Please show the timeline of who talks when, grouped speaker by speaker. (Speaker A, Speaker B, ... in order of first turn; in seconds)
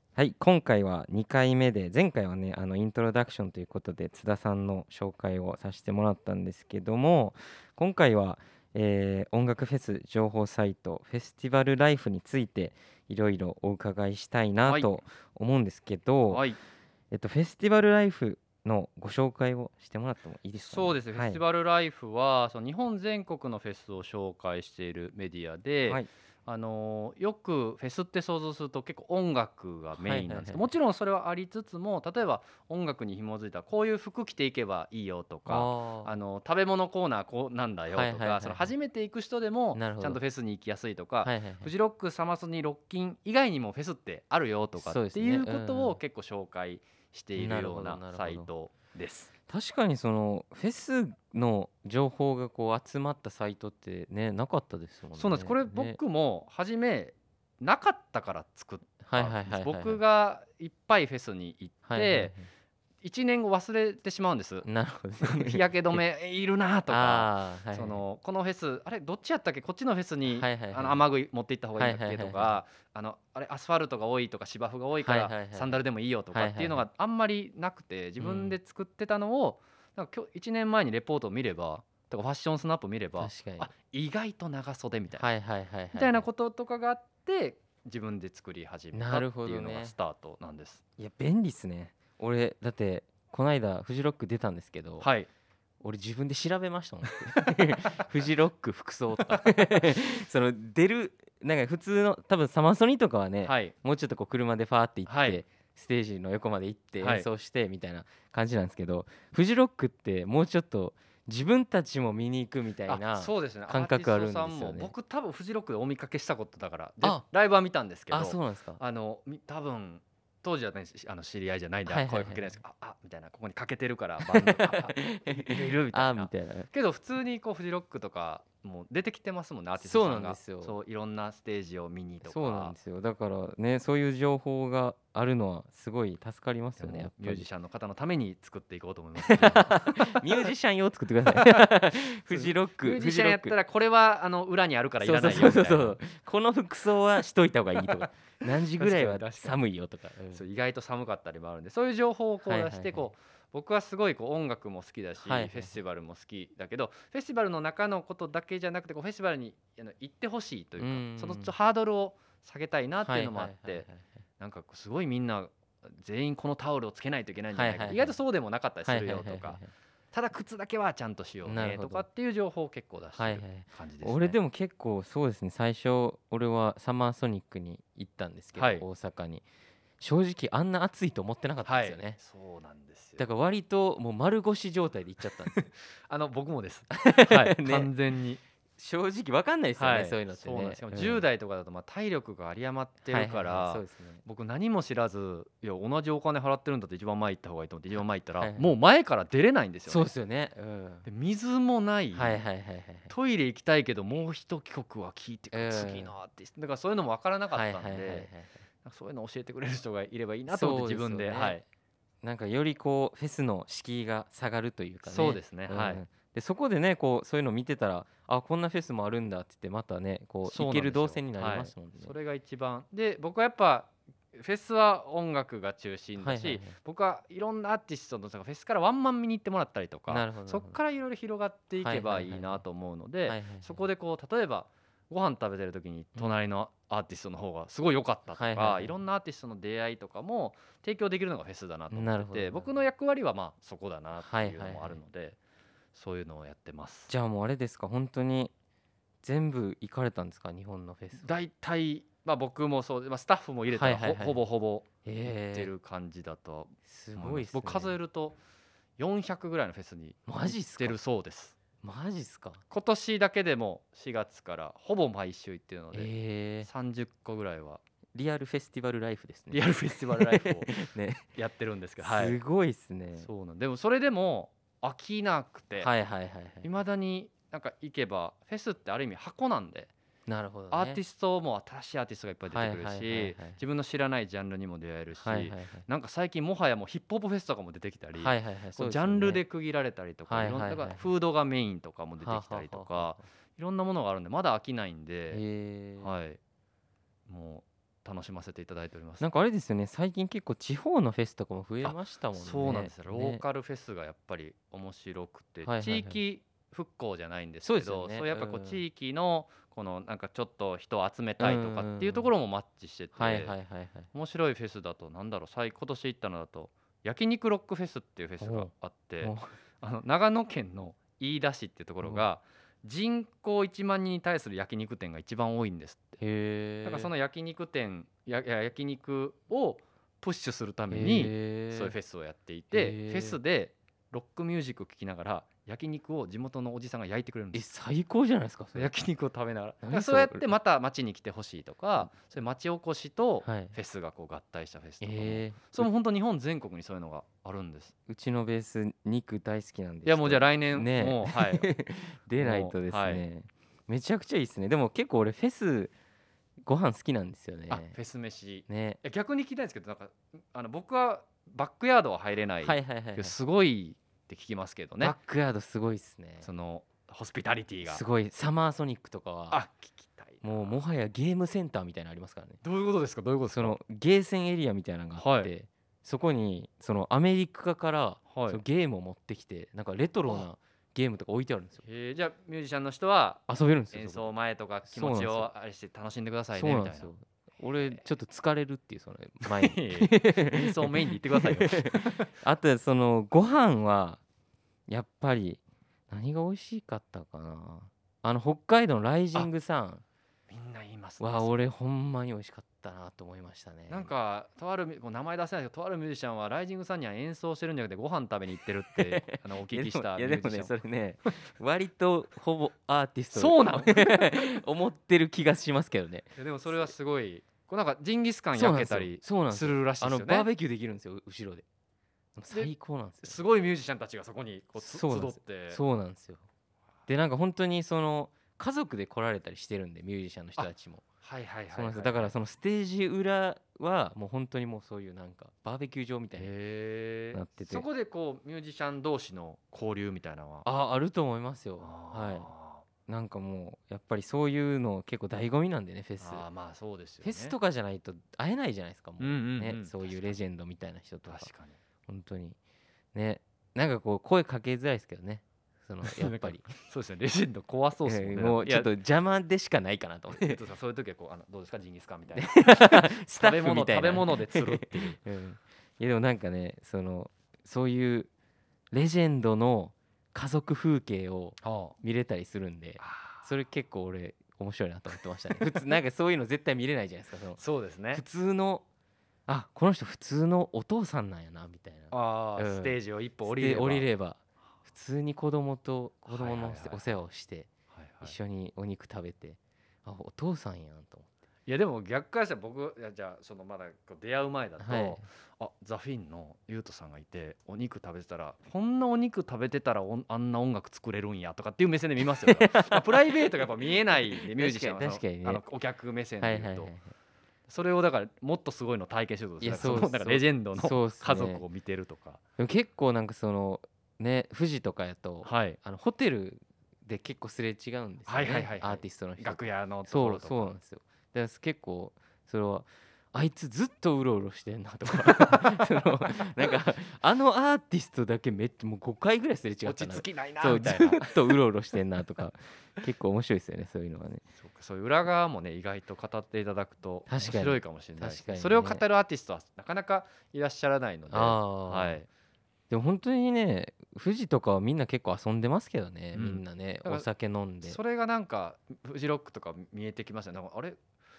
Speaker A: 0.2-16.4, 17.1-21.4, 29.9-30.7, 35.5-36.1, 37.9-38.7, 39.8-40.2, 41.2-41.7, 44.8-46.0, 47.4-48.5, 49.5-56.0, 59.0-60.0, 61.9-62.5, 64.6-66.0, 66.9-68.0, 70.3-71.1, 71.8-72.6, 75.0-75.8, 76.3-76.9, 78.2-78.6, 83.2-83.7, 85.2-86.3, 88.9-89.9, 91.0-95.1, 95.8-114.9, 118.1-118.8, 121.9-122.6, 124.3-126.7, 129.8-130.8, 132.2-137.5, 139.2-143.6, 145.0-150.4, 152.5-153.1, 155.2-155.8, 160.8-161.5, 163.0-164.0, 167.5-168.2, 168.9-169.7, 171.4-172.1, 173.2-179.4, 180.0-182.2, 183.2-185.7, 186.9-187.9, 188.8-191.2, 193.1-194.2, 198.4-198.7, 199.9-201.1, 202.1-203.1, 205.5-206.1, 207.5-208.6, 210.5-211.6, 212.2-222.1, 226.2-226.8, 230.1-230.8, 231.8-232.6, 233.3-233.9, 238.3-239.0, 241.9-242.7, 244.2-245.0, 247.1-248.5, 249.2-251.3, 253.7-254.4, 255.1-255.7, 256.9-258.0, 260.3-261.0, 261.8-262.6, 265.9-266.7, 268.1-271.3, 272.0-273.3, 275.8-276.7, 280.3-281.0, 282.5-283.6, 285.2-285.9, 288.2-289.4, 290.3-291.1, 292.2-293.2, 295.3-296.1, 299.2-303.4, 305.6-306.2, 307.6-308.8, 311.4-312.3, 313.1-314.1, 318.4-318.7, 319.2-319.6, 322.0-322.3, 326.2-327.1, 330.9-331.9, 332.7-333.4, 337.5-338.9, 339.8-340.5, 343.4-343.8, 345.0-345.9, 348.1-355.9, 356.7-357.9, 358.7-359.0, 362.6-363.4, 365.0-366.5, 367.9-369.6, 370.4-372.6, 373.5-381.8, 383.5-384.3, 384.9-385.5, 386.5-394.2, 394.9-400.0, 401.2-404.1, 408.9-416.9, 418.5-421.6, 422.4-423.4, 424.8-426.4, 427.1-431.0, 431.7-436.5, 437.3-437.9, 440.6-442.5, 443.1-446.4, 447.2-451.5, 452.1-452.6, 453.1-456.7, 458.1-460.6, 462.3-468.3, 468.9-477.6, 478.1-478.8, 479.5-487.7, 488.2-491.3, 494.8-495.2, 502.4-505.6, 506.4-507.1, 509.6-511.6, 512.6-534.4, 537.3-539.0, 541.3-542.2, 542.9-548.0
Speaker B: 14.6-14.9, 16.3-16.6, 20.6-49.3, 55.1-62.3, 63.0-64.7, 65.2-85.3, 85.9-90.8, 95.0-95.3, 99.2-99.5, 103.5-103.8, 105.1-105.4, 107.0-107.3, 112.9-132.8, 136.8-140.5, 141.3-141.7, 142.3-146.0, 147.9-149.6, 150.3-163.9, 164.4-169.6, 170.1-174.4, 178.6-178.9, 181.7-183.3, 185.5-188.4, 189.8-200.1, 201.1-202.4, 203.1-208.3, 208.8-211.6, 215.0-216.1, 220.4-245.4, 245.9-247.1, 251.2-258.4, 259.0-261.6, 262.7-266.1, 266.6-267.8, 269.5-270.8, 271.4-272.4, 273.2-275.9, 276.6-279.9, 280.7-295.4, 296.0-296.4, 297.3-299.3, 301.8-313.6, 314.1-326.2, 326.8-337.7, 338.8-347.9, 350.1-351.7, 352.4-353.2, 357.7-365.2, 366.4-368.0, 369.5-370.8, 372.6-373.8, 375.2-375.5, 378.3-378.6, 381.8-387.1, 387.7-388.0, 389.4-392.3, 400.5-401.5, 403.9-410.8, 413.3-414.5, 416.4-420.5, 422.5-425.8, 431.2-432.3, 436.4-440.7, 441.8-442.9, 446.2-447.6, 449.2-450.4, 451.3-451.8, 456.0-458.9, 460.3-465.2, 471.6-471.9, 473.0-473.5, 475.5-475.9, 477.6-478.2, 482.1-484.1, 486.3-487.1, 487.9-488.4, 491.7-506.9, 507.7-512.4, 515.4-515.8, 518.3-520.8, 525.3-525.5, 529.9-531.6, 534.6-542.3, 546.3-547.3, 547.8-551.0